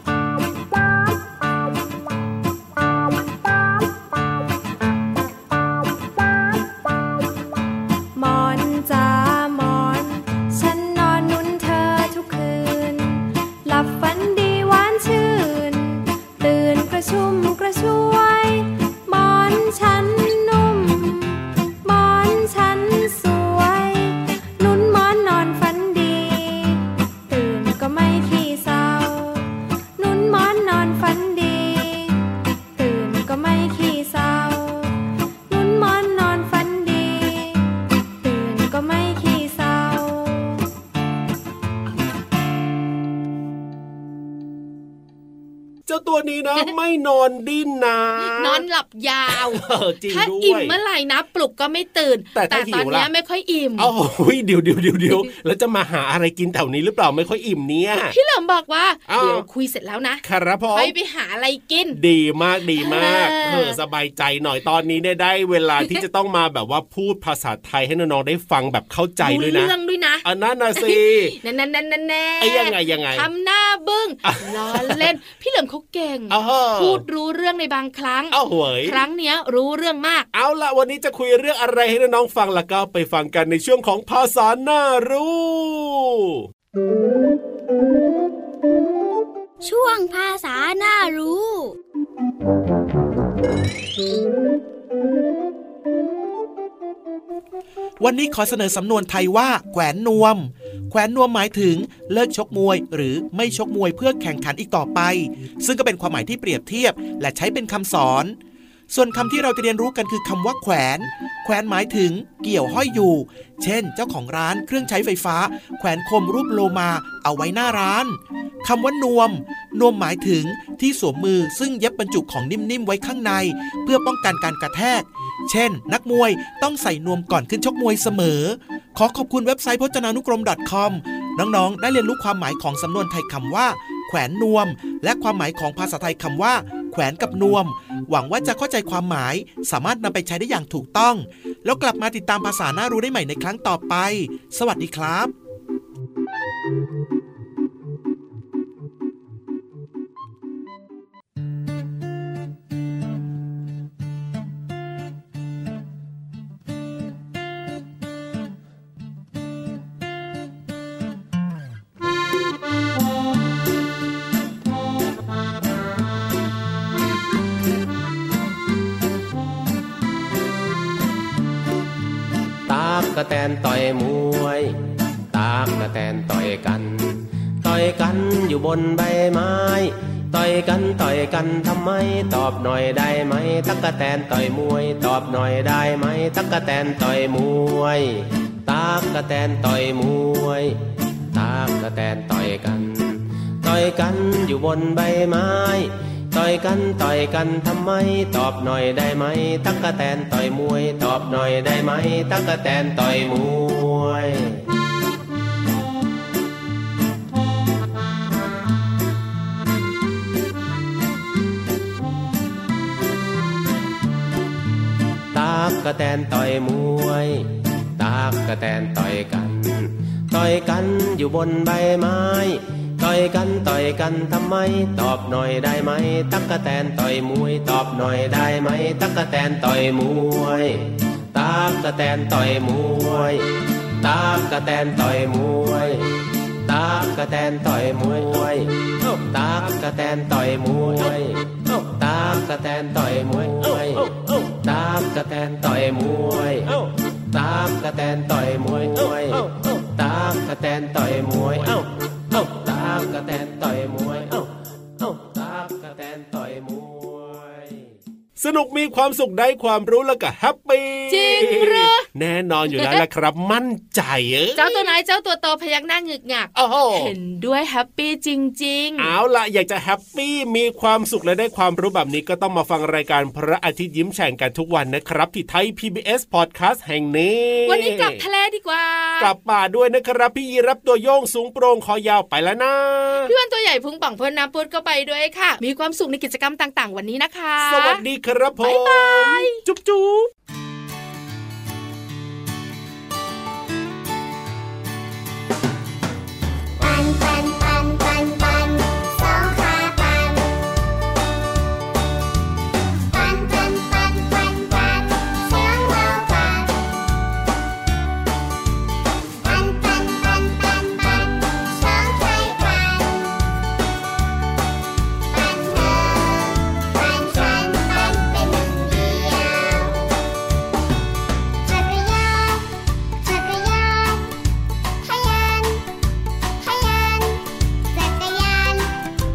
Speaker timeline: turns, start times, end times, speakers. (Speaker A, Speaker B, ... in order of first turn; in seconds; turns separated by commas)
Speaker A: 8.2-32.2, Speaker A: 32.8-37.7, Speaker A: 38.2-40.6, Speaker B: 45.9-48.6, Speaker C: 48.2-53.9, Speaker B: 49.3-50.8, Speaker B: 52.4-53.1, Speaker B: 53.8-58.1, Speaker C: 58.1-62.0, Speaker B: 59.1-59.5, Speaker B: 60.2-60.9, Speaker B: 61.9-71.4, Speaker C: 62.8-63.8, Speaker C: 69.2-70.2, Speaker C: 70.8-80.3, Speaker B: 72.4-73.3, Speaker B: 74.2-75.1, Speaker B: 76.3-77.0, Speaker B: 78.3-79.0, Speaker B: 80.3-86.4, Speaker D: 89.6-91.8, Speaker E: 98.0-108.4, Speaker E: 108.9-145.3, Speaker F: 172.7-174.8, Speaker F: 175.3-190.8, Speaker F: 191.3-204.6, Speaker F: 215.3-233.4, Speaker F: 234.0-236.1, Speaker F: 236.7-254.5, Speaker B: 244.0-244.4, Speaker F: 255.0-257.8, Speaker B: 258.4-264.9, Speaker C: 261.1-262.1, Speaker C: 262.7-263.0, Speaker C: 264.6-269.1, Speaker B: 266.6-267.1, Speaker B: 269.0-278.2, Speaker C: 277.7-279.3, Speaker B: 279.2-283.3, Speaker C: 283.2-288.0, Speaker B: 287.6-290.3, Speaker C: 288.6-289.6, Speaker G: 296.8-300.6, Speaker G: 303.1-306.8, Speaker G: 309.4-313.4, Speaker G: 315.3-320.1, Speaker G: 321.6-324.4, Speaker G: 325.0-325.9, Speaker G: 326.6-328.9